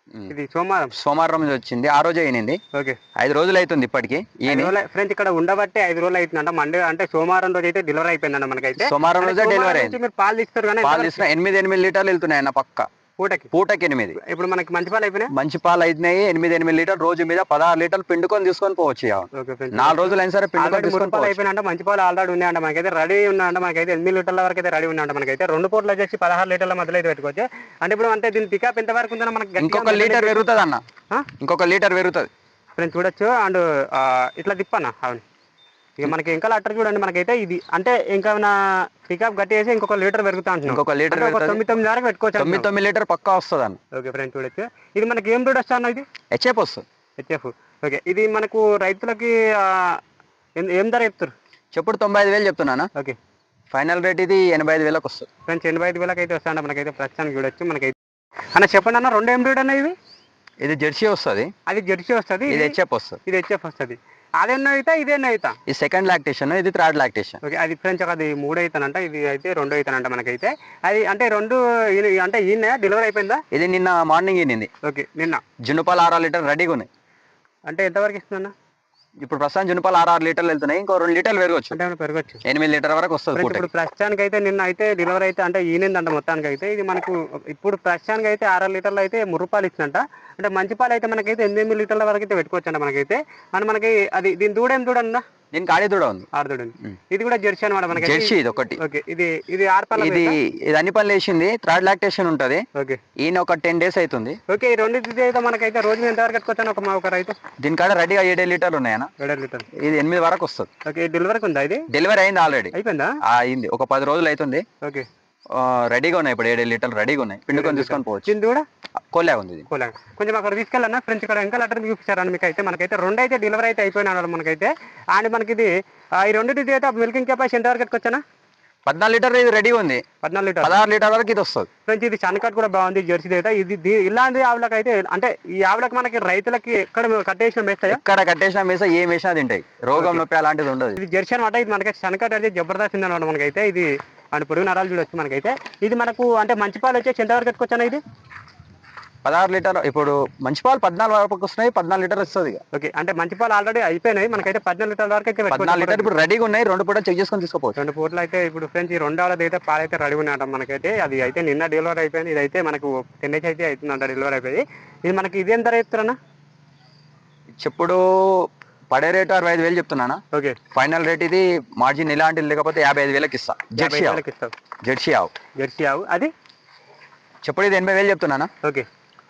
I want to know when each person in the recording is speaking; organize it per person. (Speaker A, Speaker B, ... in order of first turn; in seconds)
Speaker A: 0.3-0.9, 2.7-3.0, 4.5-11.3, 13.2-13.5, 14.2-15.3, 19.4-30.4, 32.8-35.2, 36.0-42.7, 43.9-46.1, 47.2-50.0, 50.6-51.3, 55.5-58.0, 58.5-60.0, 61.7-65.6, 67.4-73.4, 74.8-75.4, 77.7-78.5, 81.7-82.4, 83.3-95.2, 96.3-100.4, 104.5-107.4, 109.2-109.7, 110.9-111.8, 112.7-113.2, 117.5-118.7, 119.7-128.2, 130.2-130.8, 131.9-138.0, 139.9-140.2, 141.0-148.0, 152.7-156.1, 157.8-166.2, 170.3-170.6, 173.8-174.5, 175.6-176.3
Speaker B: 0.9-2.6, 3.2-4.7, 8.8-10.0, 10.8-12.9, 13.5-14.2, 15.3-21.4, 29.6-30.8, 31.4-32.3, 40.7-41.6, 42.4-43.8, 46.3-46.9, 51.7-52.9, 53.7-55.3, 60.6-61.5, 62.5-63.2, 65.7-67.4, 73.5-74.7, 75.7-76.9, 79.2-81.8, 82.5-83.7, 95.5-96.3, 98.0-98.8, 100.0-102.6, 103.2-104.4, 107.6-109.1, 109.8-110.7, 111.9-112.7, 113.3-114.7, 115.5-118.3, 119.1-119.7, 128.9-130.0, 130.6-131.7, 137.9-141.0, 149.2-152.6, 155.5-157.8, 167.6-170.2, 170.7-174.2, 174.8-175.3, 177.4-178.5